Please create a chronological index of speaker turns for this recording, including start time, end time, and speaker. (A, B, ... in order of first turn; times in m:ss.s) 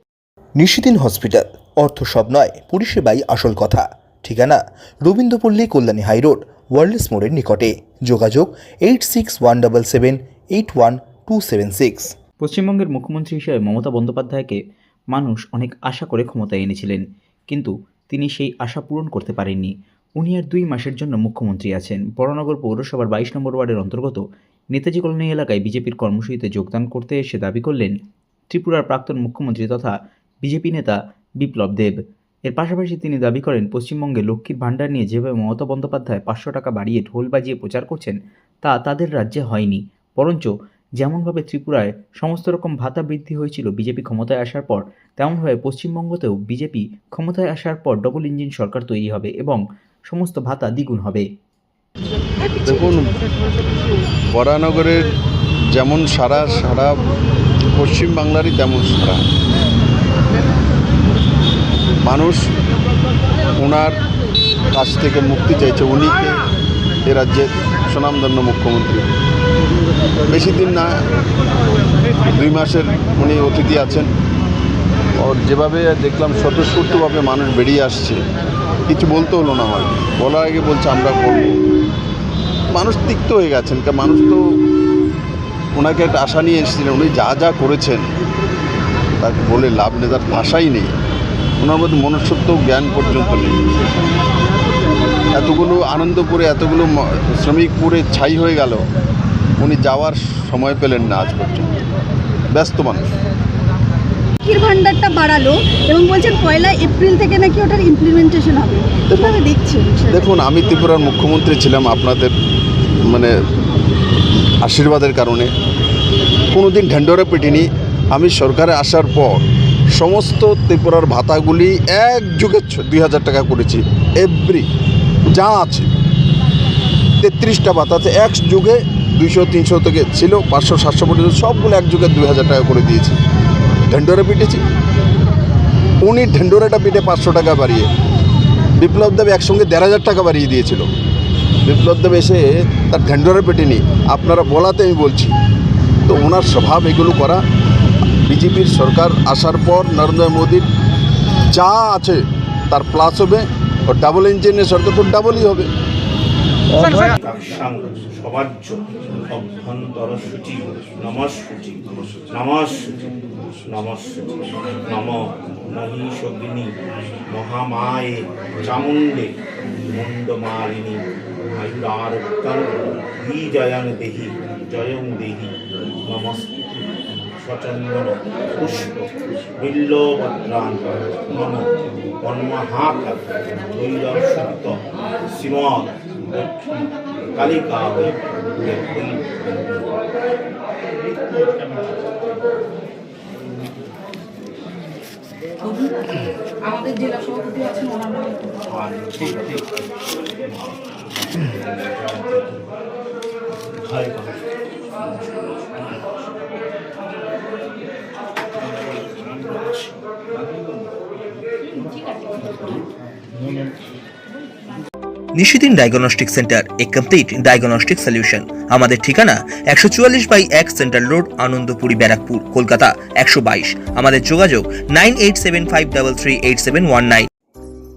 0:00.6-0:12.1 A
0:12.4-0:14.6 B
0:15.1-0:24.2 B
0:24.7-0:28.0 B
0:28.5-0:32.0 B
0:32.4-0:51.3 B
0:52.4-0:53.2 C
0:54.3-0:55.1 C
0:55.8-0:57.0 C
0:57.7-0:59.2 C
1:02.0-1:02.4 C
1:03.6-1:04.0 C
1:04.7-1:06.4 C
1:07.0-1:09.1 C
1:10.3-1:11.0 C
1:12.3-1:14.1 C
1:15.2-1:18.2 C
1:18.9-1:21.5 C
1:22.7-1:24.4 C
1:25.8-1:28.1 C
1:29.2-1:30.9 C
1:31.6-1:33.8 C
1:35.3-1:38.8 C
1:39.6-1:41.7 C
1:42.5-1:43.1 C
1:44.5-1:50.2 D
1:45.1-1:52.3 C
1:54.6-1:55.5 C
1:56.5-1:59.4 C
1:59.9-2:04.7 C
2:05.3-2:05.9 C
2:07.2-2:13.2 C
2:13.9-2:14.6 C
2:16.0-2:17.9 C
2:18.8-2:20.9 C
2:21.6-2:25.4 C
2:26.1-2:27.4 C
2:28.3-2:30.7 C
2:31.5-2:35.7 C
2:36.8-2:43.1 E
2:43.6-2:46.8 E
2:47.3-2:49.4 E
2:49.9-2:51.0 E
2:51.6-2:56.6 E
2:57.3-3:01.7 E
3:02.2-3:09.2 E
3:15.6-3:16.0 F
3:16.6-3:18.6 F
3:18.7-3:19.8 E
3:21.3-3:22.7 E
3:23.8-3:24.4 E
3:35.4-3:47.3 A